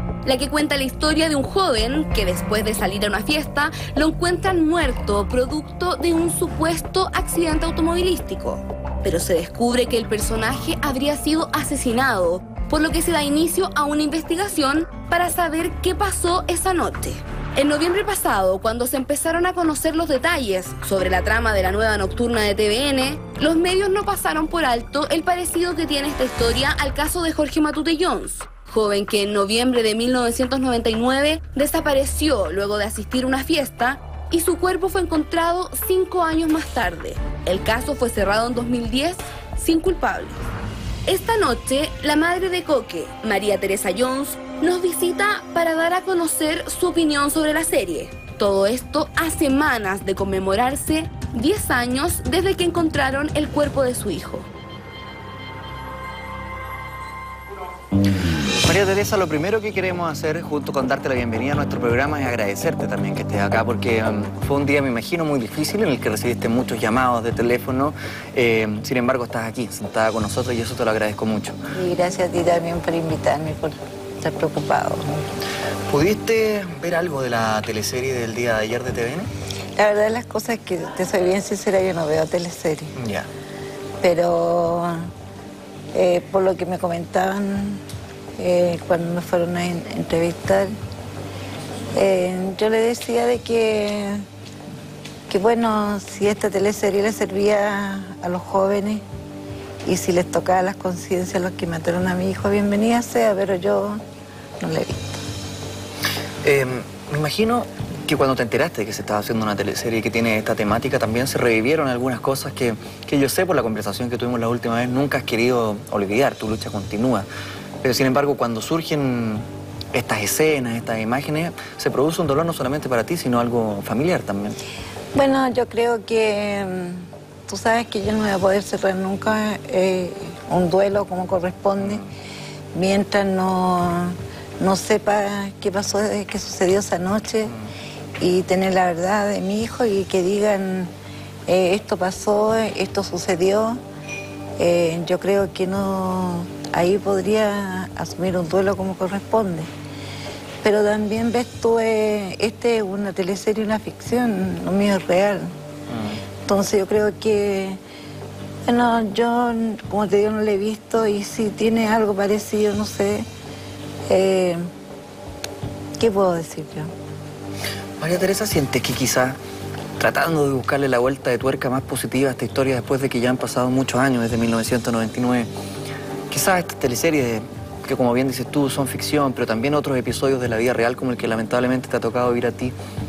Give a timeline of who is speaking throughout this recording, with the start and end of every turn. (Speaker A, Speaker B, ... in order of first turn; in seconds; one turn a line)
Speaker A: 0.2-40.4
Speaker A: 41.1-54.5
Speaker B: 58.6-71.6
Speaker C: 71.7-75.2
Speaker B: 75.9-79.3
Speaker C: 79.8-83.0
Speaker B: 83.0-83.3
Speaker C: 84.0-85.1
Speaker C: 85.9-87.8
Speaker C: 88.4-90.8
Speaker C: 91.9-94.3
Speaker C: 95.3-99.0
Speaker C: 99.8-104.0
Speaker C: 104.6-105.2
Speaker B: 106.4-117.3
Speaker B: 117.8-124.6
Speaker C: 125.1-132.0
Speaker B: 131.8-132.1
Speaker C: 132.7-137.6
Speaker C: 138.2-140.9
Speaker C: 141.5-143.8
Speaker C: 144.6-149.7
Speaker C: 150.6-155.5
Speaker B: 155.9-156.2
Speaker C: 156.5-157.8
Speaker C: 158.7-163.3
Speaker C: 164.1-164.7
Speaker C: 166.0-166.9
Speaker B: 168.0-169.4
Speaker B: 170.0-175.5
Speaker B: 176.3-182.7